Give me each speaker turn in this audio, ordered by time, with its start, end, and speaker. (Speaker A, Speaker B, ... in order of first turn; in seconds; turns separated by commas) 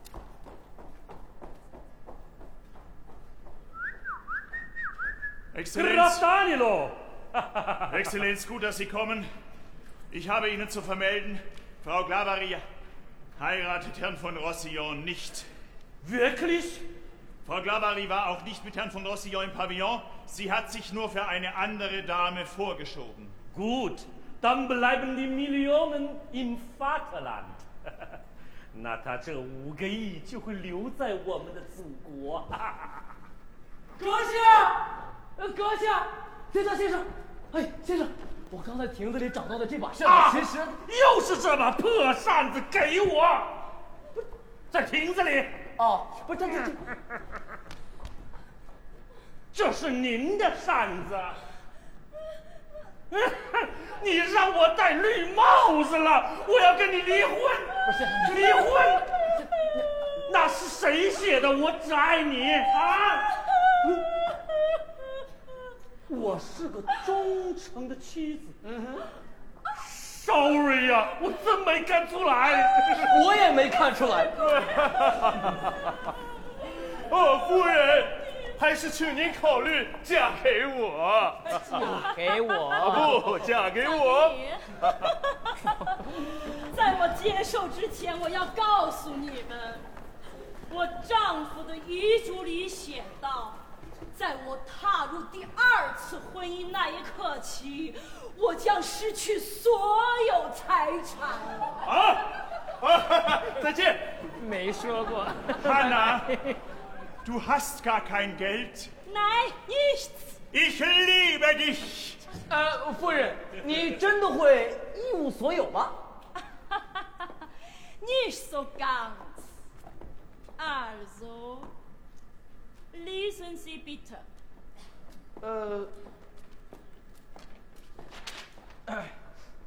Speaker A: 5.5-6.2, Speaker B: 5.7-8.0, Speaker A: 7.9-9.3, Speaker A: 10.1-12.7, Speaker A: 13.4-15.5, Speaker B: 16.0-16.9, Speaker A: 17.4-23.4, Speaker B: 23.5-27.6, Speaker B: 28.7-33.0, Speaker C: 34.0-34.8, Speaker C: 35.4-40.8, Speaker B: 40.0-43.5, Speaker B: 44.7-45.6, Speaker C: 45.8-46.8, Speaker B: 49.5-51.4, Speaker B: 53.1-59.1, Speaker C: 57.9-58.7, Speaker B: 60.2-63.4, Speaker B: 66.1-68.6, Speaker C: 68.7-69.1, Speaker B: 69.8-73.1, Speaker C: 73.1-74.4, Speaker D: 74.5-75.5, Speaker D: 77.1-82.1, Speaker E: 81.5-89.9, Speaker C: 82.0-83.2, Speaker D: 82.8-84.9, Speaker E: 90.7-93.6, Speaker E: 94.1-101.7, Speaker A: 101.8-102.2, Speaker A: 102.8-104.0, Speaker C: 104.3-106.2, Speaker A: 105.5-106.3, Speaker A: 107.2-108.9, Speaker E: 109.1-110.4, Speaker A: 110.5-112.2, Speaker C: 112.5-116.0, Speaker E: 116.7-117.3, Speaker E: 118.0-119.5, Speaker E: 120.6-121.7, Speaker E: 122.9-124.3, Speaker C: 125.4-125.9